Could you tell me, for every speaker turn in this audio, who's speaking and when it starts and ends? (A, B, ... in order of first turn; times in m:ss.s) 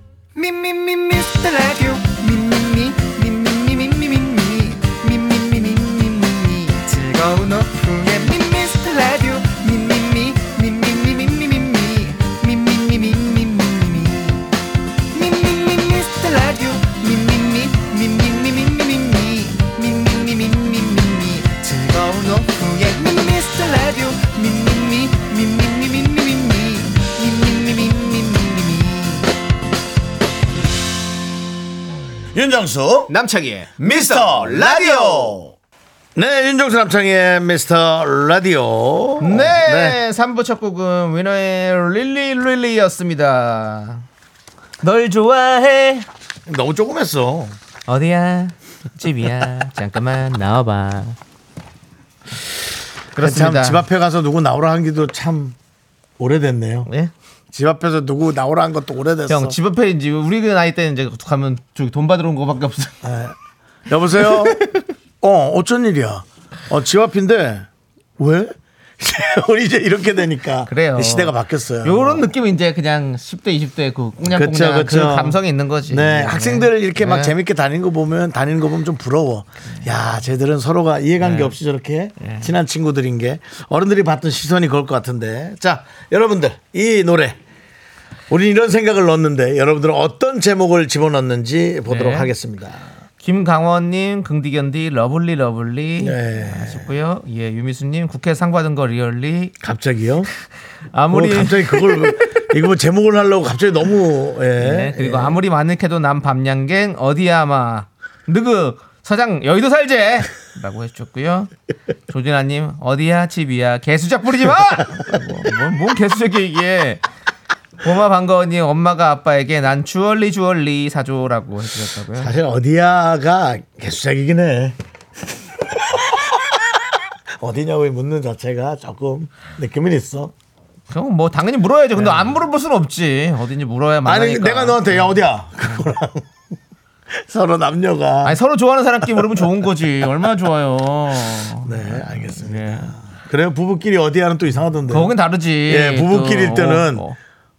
0:00.4-0:14.5 A
0:15.1-0:29.3 A
0:32.3-0:33.1 B
0:33.1-0:35.4 C
0:33.8-0:35.5 B
0:36.2-0:40.0 B
0:39.2-0:44.0 C
0:44.8-0:46.0 C
0:46.5-0:47.6 B
0:47.9-0:51.2 C
0:53.1-0:53.8 C
0:53.2-0:55.6 B
0:56.2-0:56.9 B
0:56.9-0:57.1 C
0:57.5-0:59.6 B
0:59.3-1:03.0 C
1:03.0-1:03.3 B
1:03.9-1:04.6 B
1:04.3-1:04.8 C
1:05.2-1:12.2 B
1:10.7-1:17.3 C
1:14.2-1:15.4 B
1:15.9-1:27.4 B
1:21.2-1:21.5 C
1:22.2-1:22.5 C
1:28.3-1:32.8 B
1:31.9-1:32.3 C
1:33.2-1:39.5 C
1:36.0-1:36.8 B
1:39.6-1:40.3 B
1:40.9-1:42.1 C
1:41.1-1:45.4 B
1:44.6-1:51.5 C
1:52.1-1:57.0 C
1:57.8-2:02.3 C
2:02.2-2:04.8 B
2:05.6-2:10.3 B
2:10.9-2:15.1 C
2:12.0-2:12.3 B
2:14.0-2:16.3 B
2:17.1-2:18.4 B
2:18.2-2:22.9 C
2:19.0-2:19.4 B
2:21.6-2:25.1 B
2:24.9-2:27.2 C
2:25.6-2:27.0 B